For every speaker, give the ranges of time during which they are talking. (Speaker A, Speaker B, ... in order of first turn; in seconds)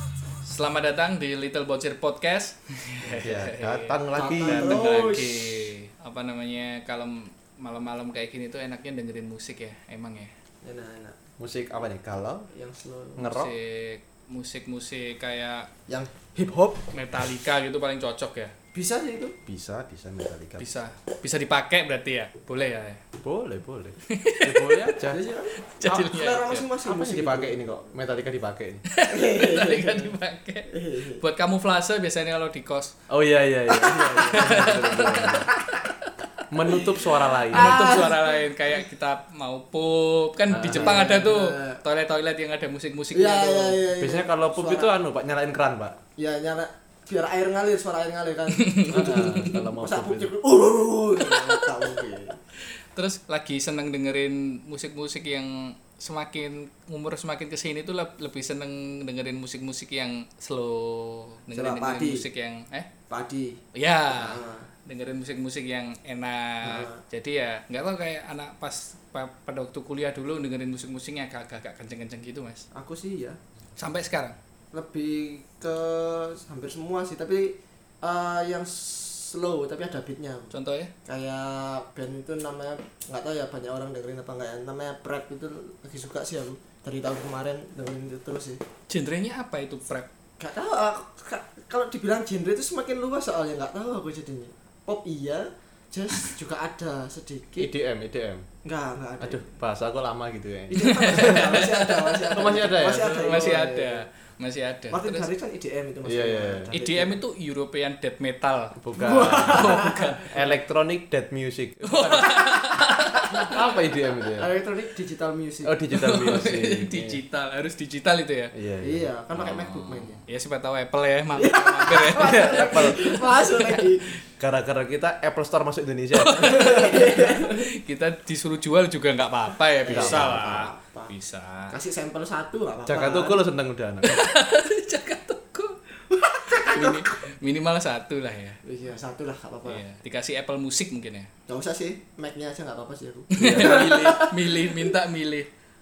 Speaker A: 0.4-10.3, 13.3-15.7, 16.9-18.5, 20.6-23.0, 24.1-25.0, 25.6-26.6, 28.9-32.9, 34.2-35.5, 37.5-43.8, 48.5-49.6, 51.2-51.6, 52.9-62.9, 63.7-72.7, 73.8-74.3, 80.5-80.9, 88.9-90.1, 100.8-105.3, 106.7-110.4, 111.8-113.7, 115.9-118.5, 119.3-124.1, 126.1-131.8, 134.0-135.8, 136.5-138.6, 139.7-141.3, 143.3-145.5
Speaker B: 3.1-4.8, 11.4-12.5, 13.2-13.5, 19.4-20.8, 23.2-25.2, 25.8-26.2, 26.8-28.8, 33.1-35.5, 36.5-38.0, 40.5-41.0, 44.0-46.0, 48.9-50.3, 97.6-98.4, 99.2-101.7, 102.3-103.3, 106.0-106.7, 108.8-112.3, 113.2-114.5, 115.6-117.2, 118.5-119.1, 122.5-123.2, 124.4-127.1, 129.9-130.5, 132.8-134.2, 143.4-144.2
Speaker C: 4.1-5.7, 10.6-11.2, 12.5-13.2, 15.9-16.8, 18.7-19.4, 25.0-27.6, 29.0-30.1, 30.7-31.2, 33.7-34.7, 37.5-38.4, 40.6-41.8, 43.1-44.9, 46.2-52.4, 61.5-62.2, 63.1-63.6, 64.1-64.7, 66.6-67.0, 72.7-73.4, 74.7-80.5, 81.0-88.6, 90.4-97.7, 98.6-99.5, 100.7-104.0, 104.9-107.2, 109.0-110.1, 114.3-115.8, 118.8-120.2, 121.3-124.2, 126.4-127.7, 129.8-131.1, 131.7-133.4, 136.1-137.1, 138.6-139.8, 141.5-144.9